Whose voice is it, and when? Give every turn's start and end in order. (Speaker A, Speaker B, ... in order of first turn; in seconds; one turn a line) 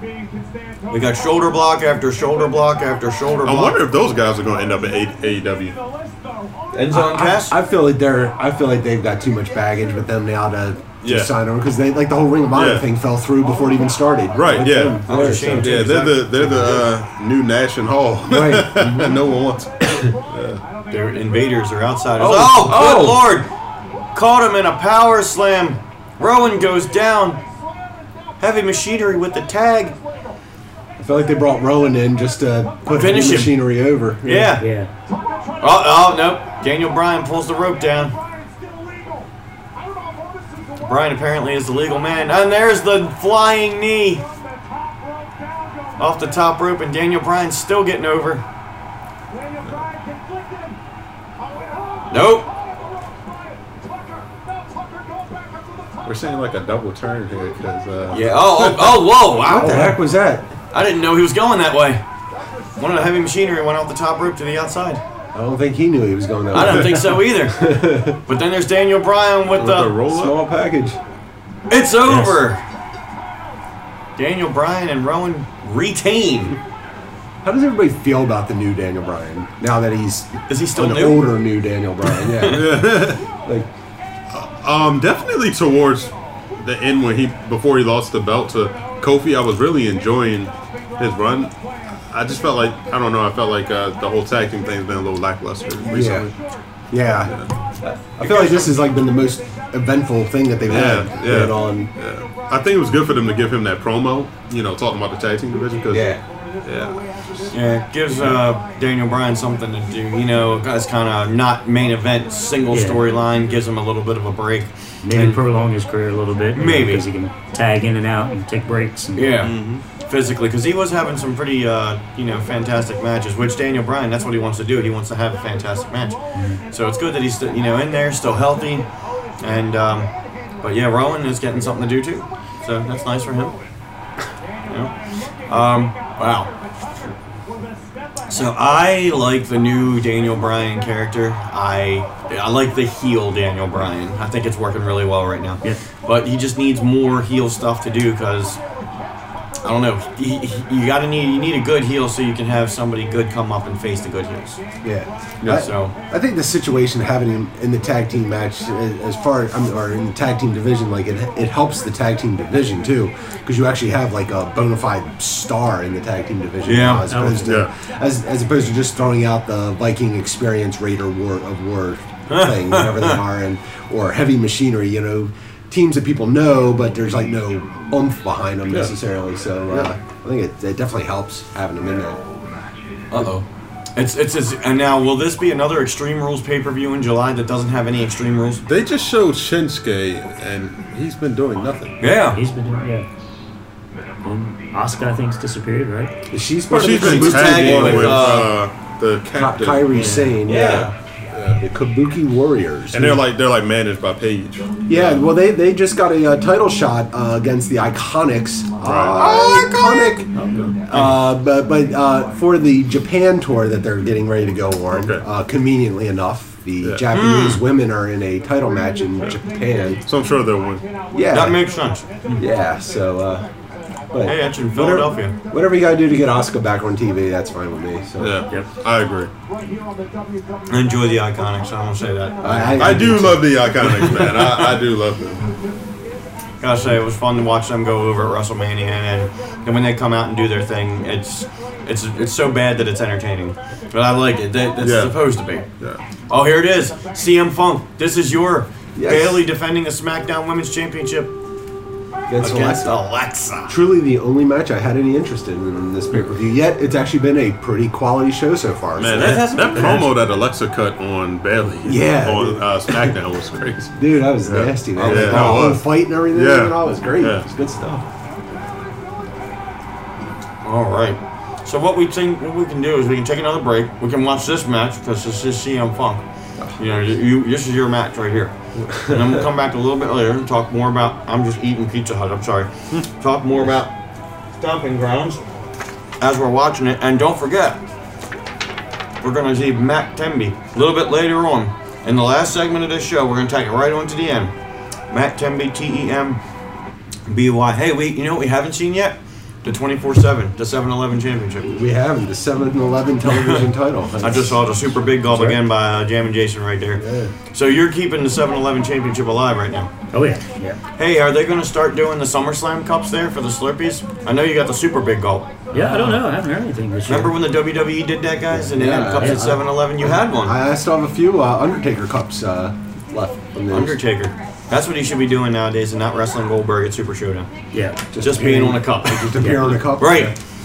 Speaker A: 0.9-3.8
Speaker B: 3.4-5.8
Speaker A: 6.7-7.5
Speaker C: 6.9-16.7
Speaker B: 11.0-11.3
Speaker B: 12.5-12.9
Speaker B: 14.3-20.6
Speaker A: 15.1-16.8
Speaker C: 18.2-18.9
Speaker A: 18.8-19.1
Speaker C: 19.8-20.1
Speaker A: 20.9-23.5
Speaker C: 22.2-23.2
Speaker A: 24.1-27.4
Speaker A: 28.4-29.9
Speaker C: 31.0-34.5
Speaker A: 32.9-33.6
Speaker A: 34.2-34.6
Speaker D: 34.3-34.9
Speaker A: 35.6-38.1
Speaker A: 40.8-44.3
Speaker A: 46.0-48.4
Speaker A: 52.1-52.5
Speaker B: 56.0-59.1
Speaker A: 58.1-60.0
Speaker C: 59.5-60.5
Speaker A: 60.7-62.0
Speaker A: 62.8-65.0
Speaker C: 65.3-68.2
Speaker A: 66.5-70.0
Speaker B: 69.5-70.4
Speaker C: 70.1-71.0
Speaker A: 71.7-72.6
Speaker D: 72.0-72.4
Speaker A: 74.2-76.6
Speaker C: 77.4-83.7
Speaker A: 80.5-81.3
Speaker A: 82.2-82.8
Speaker B: 82.5-83.2
Speaker B: 84.3-91.5
Speaker B: 92.1-96.4
Speaker C: 95.8-96.3
Speaker C: 96.9-101.9
Speaker B: 97.2-97.5
Speaker A: 98.2-98.7
Speaker B: 100.7-107.5
Speaker C: 105.9-106.2
Speaker A: 107.5-115.4
Speaker D: 112.7-113.0
Speaker D: 115.0-119.5
Speaker A: 116.5-117.0
Speaker A: 119.1-128.9
Speaker B: 119.4-119.8
Speaker D: 126.3-126.6
Speaker A: 129.4-130.1
Speaker A: 130.6-133.6
Speaker A: 134.7-134.9
Speaker A: 135.5-136.5
Speaker A: 138.3-148.6
Speaker A: 149.6-154.6
Speaker C: 154.8-182.2
Speaker A: 155.5-155.9
Speaker A: 166.6-167.1
Speaker D: 167.1-167.6
Speaker B: 167.4-167.7
Speaker A: 172.3-173.2
Speaker B: 178.7-178.9
Speaker A: 183.1-188.6
Speaker B: 188.6-191.9
Speaker A: 192.0-192.4
Speaker D: 192.3-193.1
Speaker D: 194.2-196.1
Speaker C: 196.3-198.5
Speaker B: 196.7-200.8
Speaker A: 196.8-198.6
Speaker C: 199.3-200.9
Speaker D: 199.9-200.3
Speaker A: 200.4-200.9
Speaker B: 201.3-201.6
Speaker C: 201.6-203.2
Speaker B: 202.9-205.2
Speaker C: 204.9-210.3
Speaker B: 208.8-209.2
Speaker A: 209.0-210.0
Speaker D: 210.3-210.8
Speaker A: 210.9-211.3
Speaker C: 210.9-220.0
Speaker B: 214.9-215.2
Speaker A: 217.1-217.6
Speaker B: 220.1-220.8
Speaker C: 221.1-221.6
Speaker A: 221.3-222.4
Speaker C: 222.4-223.5
Speaker C: 224.1-228.4
Speaker A: 224.2-225.4
Speaker B: 228.2-229.3
Speaker A: 230.7-233.1
Speaker C: 232.4-233.6
Speaker B: 232.8-235.5
Speaker A: 233.8-234.8
Speaker A: 236.6-245.7
Speaker B: 244.8-246.0
Speaker A: 246.3-251.3
Speaker C: 248.9-249.4
Speaker C: 252.3-252.9
Speaker A: 252.4-253.8
Speaker C: 253.7-259.9
Speaker B: 258.9-267.5
Speaker A: 259.1-260.1
Speaker C: 261.8-263.1
Speaker C: 263.9-268.0
Speaker A: 264.9-265.8
Speaker A: 270.6-276.2
Speaker A: 276.8-278.5
Speaker C: 278.8-279.4
Speaker A: 279.1-283.9
Speaker A: 284.6-285.4
Speaker A: 286.2-287.8
Speaker A: 289.2-294.5
Speaker A: 295.1-296.4
Speaker A: 297.3-301.7
Speaker C: 301.6-304.7
Speaker A: 303.2-303.7
Speaker A: 304.2-309.9
Speaker D: 305.3-305.6
Speaker C: 306.9-307.3
Speaker D: 310.1-310.8
Speaker A: 311.0-316.2
Speaker D: 315.7-317.4
Speaker A: 317.1-320.6
Speaker C: 318.5-324.0
Speaker D: 319.1-319.6
Speaker A: 323.7-327.5
Speaker D: 327.7-328.0
Speaker C: 328.1-330.3
Speaker A: 328.2-330.3
Speaker D: 329.4-329.8